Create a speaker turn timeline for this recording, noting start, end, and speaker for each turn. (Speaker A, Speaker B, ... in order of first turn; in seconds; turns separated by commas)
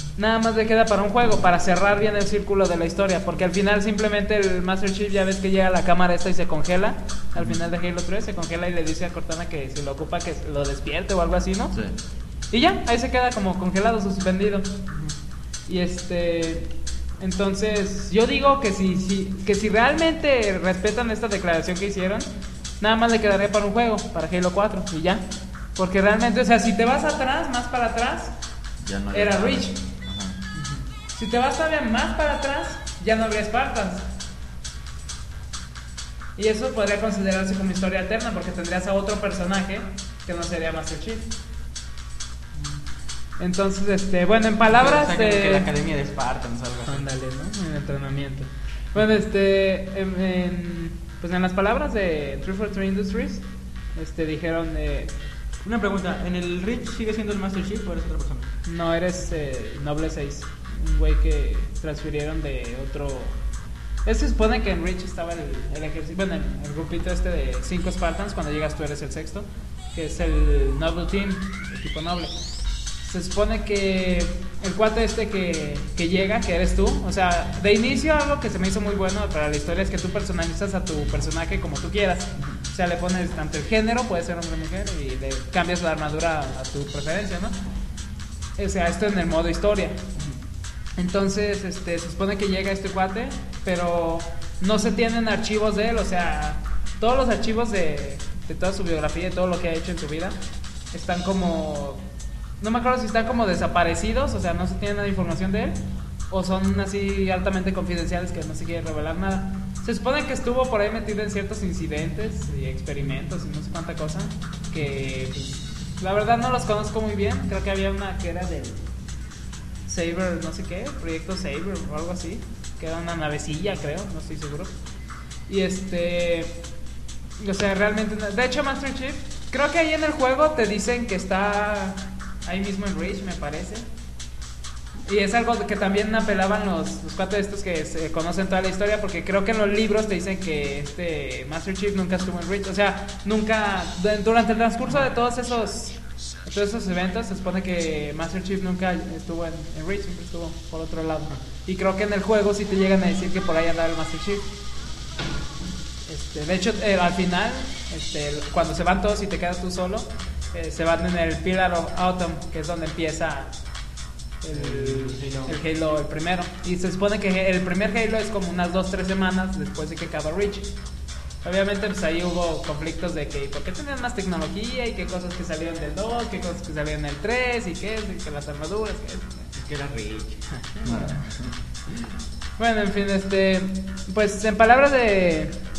Speaker A: 0.1-11.8, Speaker A: 12.5-14.7, Speaker A: 15.7-22.3, Speaker A: 22.8-28.3, Speaker B: 28.8-30.4, Speaker A: 29.1-29.8, Speaker C: 30.5-30.8, Speaker A: 31.1-34.1, Speaker A: 36.4-41.3, Speaker A: 43.4-45.7, Speaker C: 44.7-47.0, Speaker A: 46.9-53.4, Speaker A: 53.9-55.1, Speaker C: 55.6-58.5, Speaker A: 58.6-63.4, Speaker A: 64.0-72.3, Speaker A: 73.0-87.6, Speaker A: 88.6-90.1, Speaker A: 91.0-100.4, Speaker A: 100.9-102.0, Speaker A: 102.6-105.8, Speaker A: 106.3-118.8, Speaker A: 119.8-124.7, Speaker A: 125.5-126.6, Speaker A: 127.4-133.8, Speaker A: 135.0-154.4, Speaker C: 144.8-145.1, Speaker A: 156.1-163.5, Speaker A: 164.4-170.7, Speaker C: 164.5-165.6, Speaker A: 171.4-179.5, Speaker C: 179.5-181.2, Speaker B: 180.8-181.5, Speaker A: 182.6-185.6